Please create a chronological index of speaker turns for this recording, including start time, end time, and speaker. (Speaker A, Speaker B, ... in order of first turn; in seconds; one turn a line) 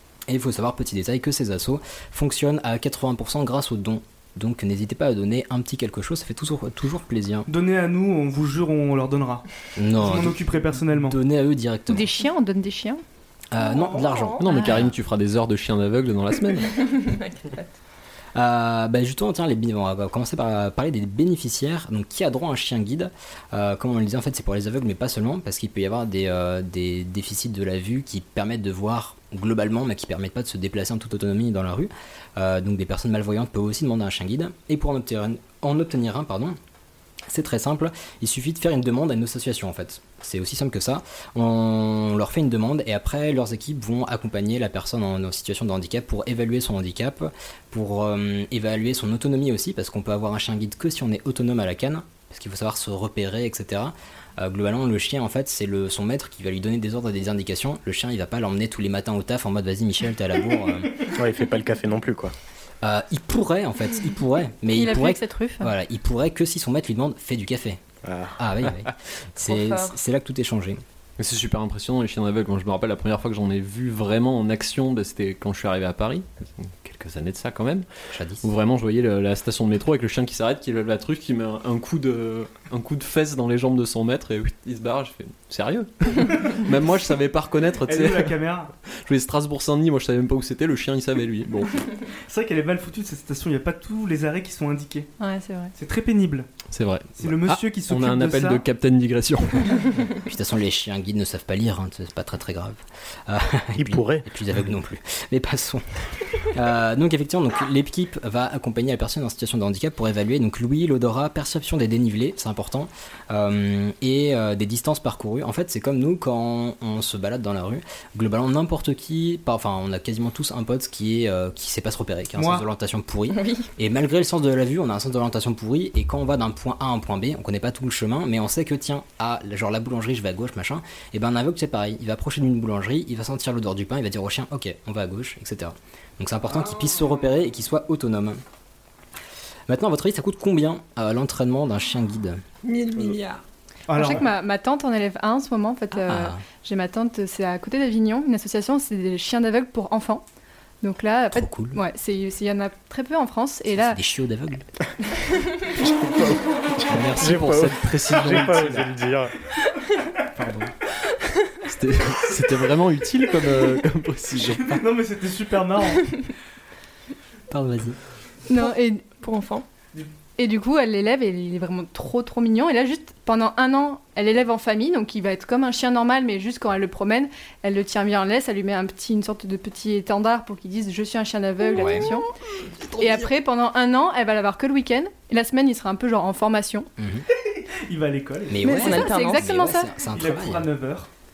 Speaker A: 0.3-7.5
Speaker B: 7.5-11.2
Speaker A: 9.8-12.1
Speaker C: 11.9-13.0
Speaker A: 13.5-14.8
Speaker D: 13.6-14.4
Speaker E: 14.4-17.0
Speaker C: 14.5-14.9
Speaker D: 16.8-17.6
Speaker A: 18.4-36.6
Speaker A: 37.3-61.0
Speaker F: 61.1-62.3
Speaker A: 62.8-67.8
Speaker C: 64.7-65.7
Speaker F: 68.0-68.3
Speaker A: 68.4-70.8
Speaker D: 69.5-70.0
Speaker E: 71.2-77.9
Speaker A: 78.1-78.5
Speaker E: 78.4-88.4
Speaker B: 87.9-88.7
Speaker E: 88.9-91.8
Speaker B: 92.3-95.1
Speaker C: 95.2-95.7
Speaker B: 95.8-96.5
Speaker E: 96.7-99.8
Speaker B: 97.2-98.7
Speaker A: 100.3-138.4
Speaker F: 103.8-104.3
Speaker B: 122.4-122.7
Speaker D: 123.3-123.7
Speaker A: 139.7-142.4
Speaker D: 142.7-143.4
Speaker B: 143.9-144.3
Speaker C: 143.9-150.2
Speaker A: 145.9-146.4
Speaker C: 150.8-154.0
Speaker A: 151.3-151.8
Speaker A: 153.8-154.7
Speaker F: 155.8-159.3
Speaker A: 156.9-157.4
Speaker E: 156.9-158.9
Speaker B: 160.4-160.7
Speaker E: 161.7-164.8
Speaker B: 164.4-166.0
Speaker A: 167.5-168.0
Speaker C: 168.5-169.1
Speaker D: 168.6-169.7
Speaker C: 170.4-182.3
Speaker A: 181.7-182.1
Speaker C: 183.0-186.9
Speaker A: 187.0-187.2
Speaker B: 187.6-188.9
Speaker A: 188.5-190.7
Speaker C: 188.6-189.9
Speaker D: 188.7-189.5
Speaker B: 190.0-191.1